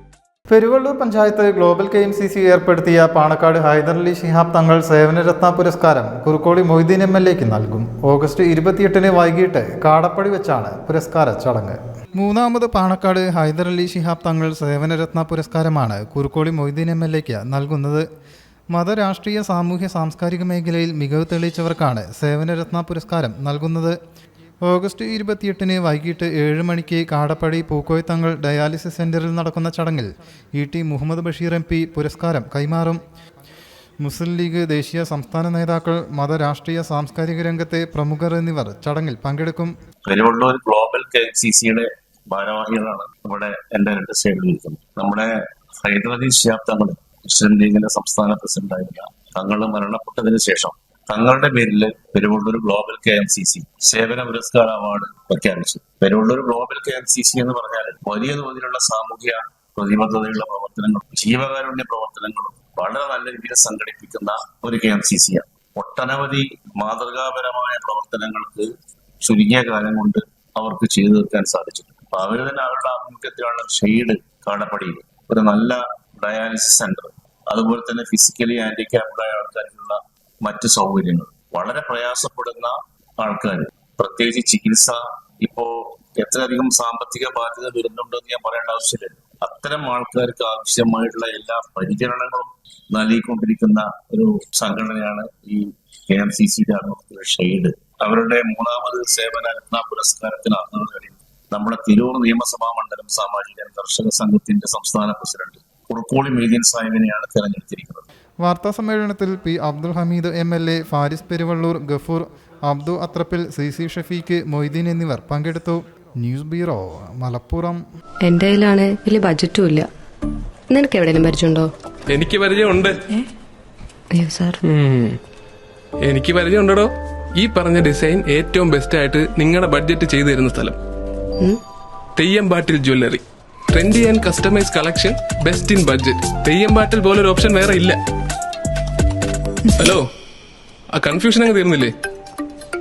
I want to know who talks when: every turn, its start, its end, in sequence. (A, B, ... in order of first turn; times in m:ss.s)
0:00.5-0:18.0 A
0:18.7-0:24.0 A
0:24.6-0:33.0 A
0:34.0-0:39.7 A
0:40.0-1:08.7 B
1:09.2-1:48.1 B
1:48.4-1:57.8 A
1:58.2-1:59.9 C
2:00.7-2:01.7 C
2:02.1-2:03.0 D
2:04.1-2:04.6 C
2:04.6-2:05.2 D
2:06.0-2:10.8 D
2:12.2-2:18.0 D
2:19.7-2:20.1 D
2:20.9-2:21.9 D